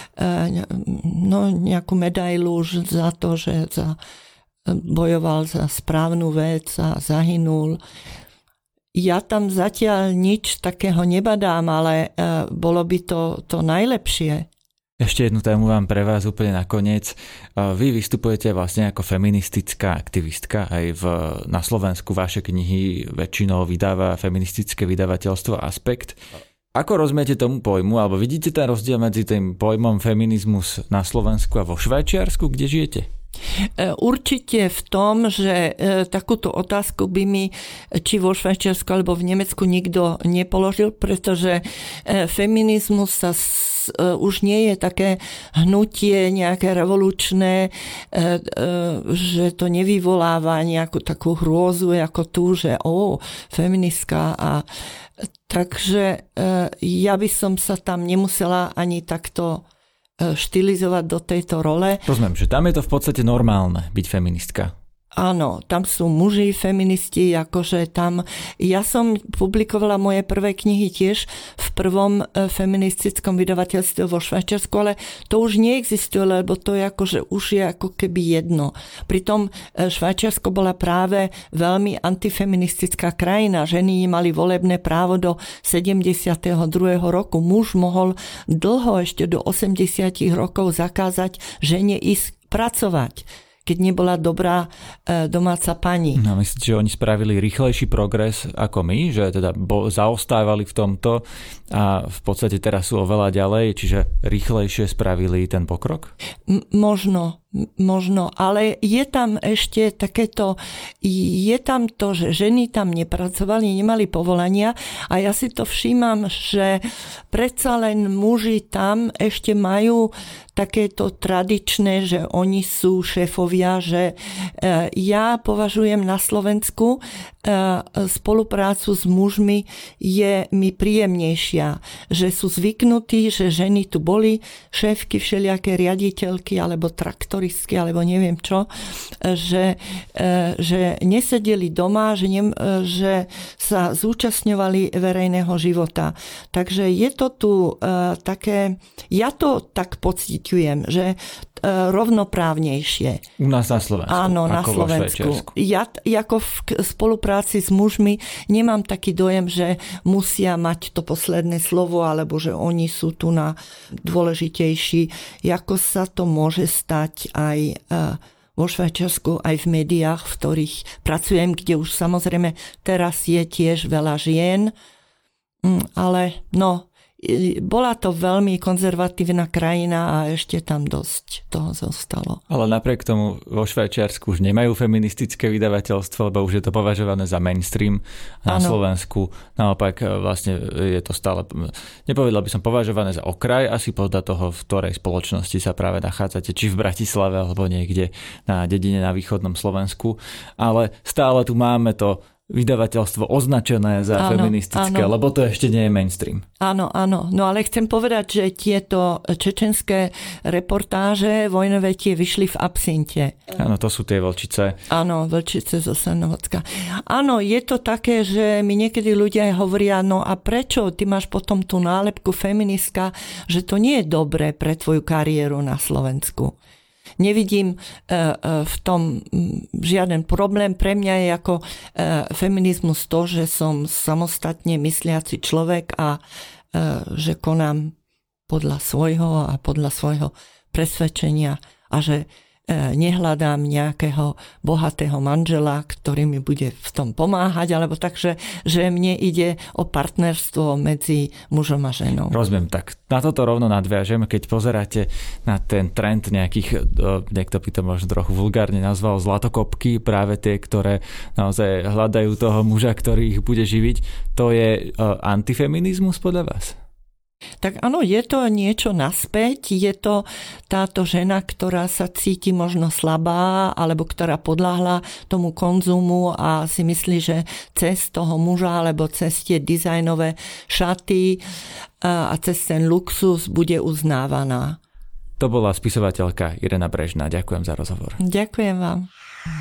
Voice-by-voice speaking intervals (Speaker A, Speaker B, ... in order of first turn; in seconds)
Speaker A: 0.2-4.0, 4.7-7.8, 8.9-14.5, 33.8-54.6, 55.5-59.6, 60.2-62.1, 65.1-96.2, 106.5-138.7, 139.2-153.2, 154.1-174.7, 175.6-182.4, 188.5-188.8, 204.2-205.1, 206.6-213.5, 214.9-226.6, 227.2-236.2, 236.7-237.9, 238.5-252.4, 267.6-281.4, 282.0-284.8, 288.2-289.1
Speaker B: 15.0-26.2, 26.7-33.1, 62.1-64.7, 96.1-106.1, 153.4-155.5, 182.5-206.4, 213.6-214.8, 252.3-266.8, 285.4-288.2